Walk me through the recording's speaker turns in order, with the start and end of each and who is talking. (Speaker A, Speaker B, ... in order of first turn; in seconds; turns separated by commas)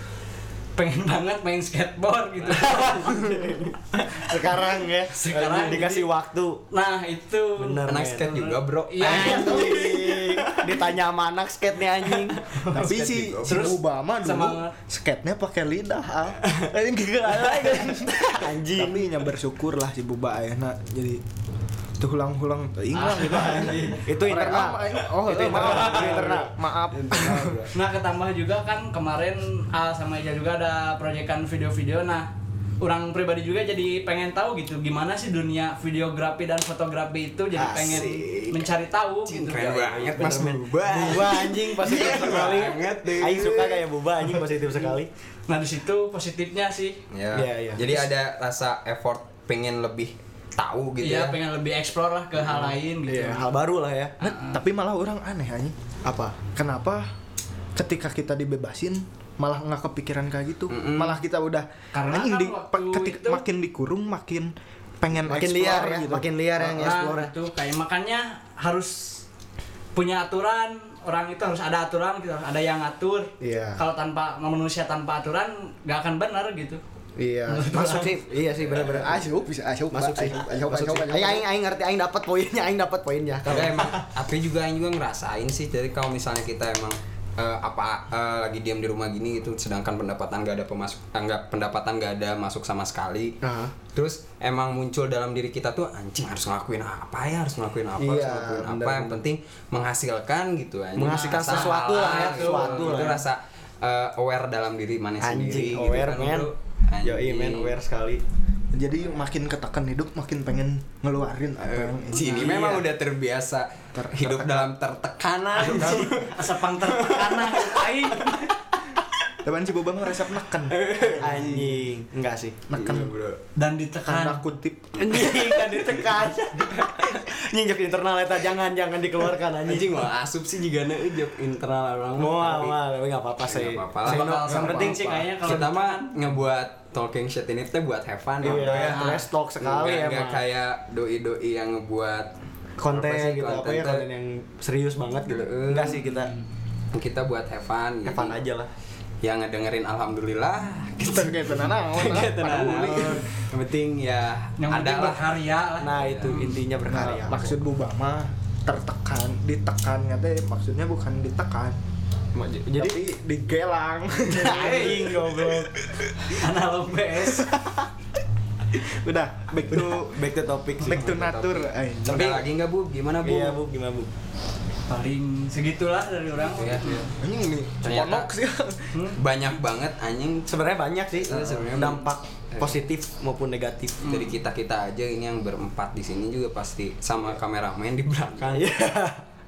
Speaker A: 0.8-3.4, Speaker B: 2.6-6.6, Speaker C: 3.2-3.7, Speaker A: 5.1-6.1, Speaker A: 6.7-10.0, Speaker B: 7.6-8.3, Speaker C: 7.8-10.9, Speaker B: 9.0-12.6, Speaker C: 12.1-13.7, Speaker A: 12.7-14.7, Speaker D: 12.7-21.2, Speaker B: 16.5-19.1, Speaker D: 22.0-27.6, Speaker A: 22.9-24.0, Speaker B: 23.6-26.5, Speaker C: 24.9-27.7, Speaker A: 27.7-32.3, Speaker A: 32.8-39.8, Speaker B: 37.5-38.1, Speaker C: 37.6-38.7, Speaker C: 39.2-43.8, Speaker B: 39.6-45.1, Speaker A: 45.5-47.0, Speaker C: 47.1-51.4, Speaker B: 47.3-48.1, Speaker A: 51.0-53.5, Speaker B: 53.0-54.1, Speaker A: 54.2-54.6, Speaker D: 54.3-55.7, Speaker B: 56.0-56.4, Speaker D: 56.5-57.1, Speaker D: 57.8-66.2, Speaker C: 60.7-61.2, Speaker A: 61.9-63.4, Speaker B: 65.2-67.3, Speaker A: 66.6-69.2, Speaker A: 69.9-76.8, Speaker B: 73.4-73.8, Speaker B: 77.2-79.3, Speaker A: 77.5-78.2, Speaker D: 78.8-81.5, Speaker B: 79.9-84.1, Speaker C: 83.4-93.4, Speaker B: 93.4-93.7, Speaker C: 93.9-107.8, Speaker B: 98.0-99.2, Speaker B: 101.0-103.2, Speaker A: 101.1-103.1, Speaker B: 105.2-106.5, Speaker B: 107.0-108.2, Speaker D: 108.7-112.8, Speaker C: 111.6-118.4, Speaker B: 112.2-112.9, Speaker D: 113.9-114.7, Speaker A: 115.6-118.5, Speaker D: 119.4-121.8, Speaker C: 120.7-121.5, Speaker B: 121.1-122.6, Speaker D: 122.7-123.1, Speaker C: 122.8-123.4, Speaker A: 123.6-124.5, Speaker D: 124.1-125.0, Speaker B: 125.0-130.1, Speaker A: 125.2-125.6, Speaker C: 126.7-127.1, Speaker C: 129.7-132.8, Speaker B: 132.2-135.6, Speaker C: 133.4-139.1, Speaker A: 134.0-136.1, Speaker B: 138.4-140.4, Speaker A: 138.5-139.3, Speaker C: 139.6-142.3, Speaker B: 142.8-146.3, Speaker C: 142.9-144.1, Speaker C: 145.3-146.0, Speaker A: 146.1-146.4, Speaker C: 146.9-148.4, Speaker B: 148.0-148.7, Speaker C: 149.2-156.4, Speaker D: 151.0-153.2, Speaker B: 152.8-153.2, Speaker A: 154.6-156.6, Speaker B: 155.8-157.6, Speaker D: 156.8-161.8, Speaker B: 162.3-163.0, Speaker D: 162.8-166.2, Speaker B: 164.3-165.7, Speaker A: 164.6-165.0, Speaker A: 166.2-167.5, Speaker D: 168.9-170.2, Speaker B: 169.7-171.2, Speaker D: 170.8-172.4, Speaker C: 170.8-173.6, Speaker B: 172.1-172.5, Speaker B: 173.2-174.1, Speaker A: 174.9-177.1, Speaker C: 176.5-177.1, Speaker D: 177.1-179.0, Speaker C: 177.8-178.3, Speaker A: 178.9-179.2, Speaker C: 179.2-180.5, Speaker B: 180.5-184.1, Speaker C: 181.2-182.8, Speaker C: 184.0-188.6, Speaker B: 188.4-189.2